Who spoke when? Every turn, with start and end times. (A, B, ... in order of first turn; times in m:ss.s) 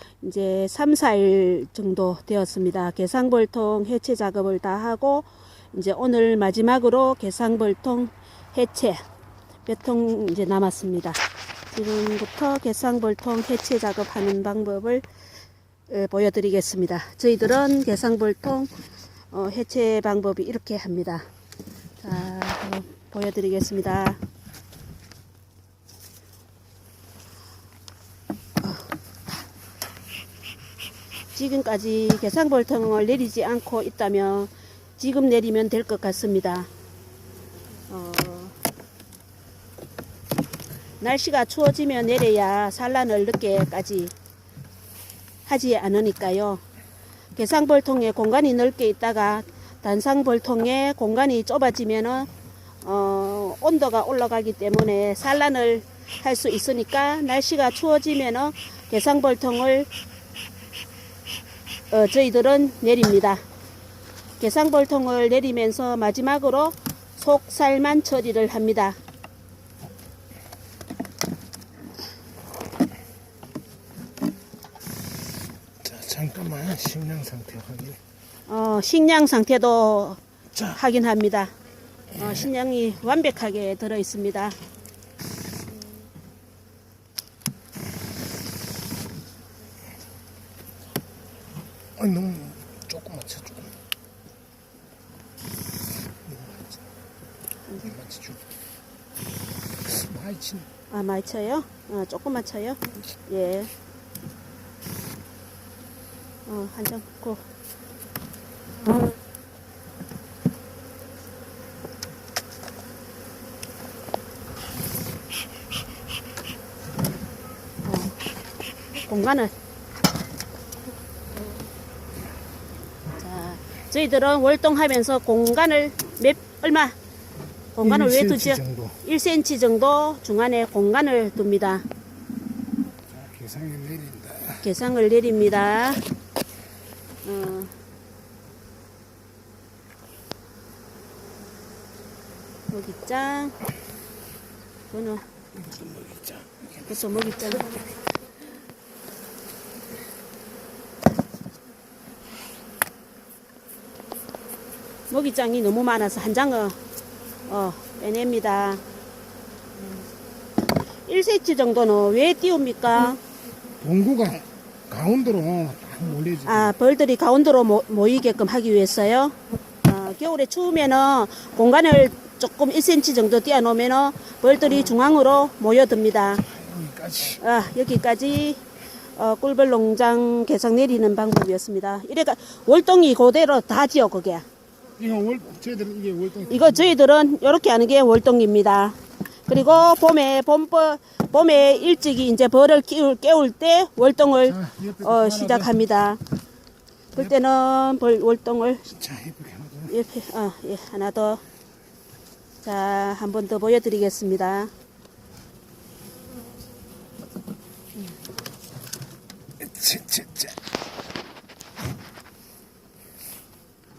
0:00.2-0:09.0 A
0:09.7-0:11.2 A
0:11.7-0:15.0 A
0:15.9-0:18.7 A
0:19.3-0:21.2 A
0:22.0-0:24.2 A
0:31.3-0:36.7 A
0:37.9-0:38.6 A
0:41.0-0:44.1 A
0:45.4-0:46.6 A
0:47.4-0:52.3 A
0:52.8-0:59.9 A
1:01.9-1:03.4 A
1:04.4-1:09.0 A
1:15.8-1:18.0 B
1:18.5-1:21.5 A
1:22.1-1:24.6 A
1:32.0-1:33.7 B
1:36.2-1:36.7 B
1:37.8-1:38.4 B
1:39.8-1:40.7 B
1:40.9-1:43.7 A
1:46.4-1:47.4 A
1:57.8-1:58.1 A
1:59.0-1:59.5 A
2:03.2-2:07.0 A
2:07.8-2:11.9 A
2:07.8-2:09.0 B
2:13.1-2:14.6 B
2:14.6-2:16.0 A
2:17.2-2:17.7 A
2:22.7-2:23.6 A
2:24.9-2:25.2 A
2:25.6-2:26.9 B
2:26.9-2:27.7 A
2:35.1-2:36.8 A
2:37.5-2:38.8 A
2:41.1-2:43.2 A
2:43.8-2:46.7 B
2:46.4-2:56.5 A
2:56.5-2:57.4 B
2:57.4-2:58.6 A
2:59.2-3:04.5 A
3:05.0-3:06.7 B
3:06.5-3:16.2 A
3:14.5-3:15.7 B
3:17.1-3:18.9 A
3:18.9-3:19.9 B
3:19.9-3:21.4 A
3:22.6-3:24.7 A
3:29.6-3:30.5 B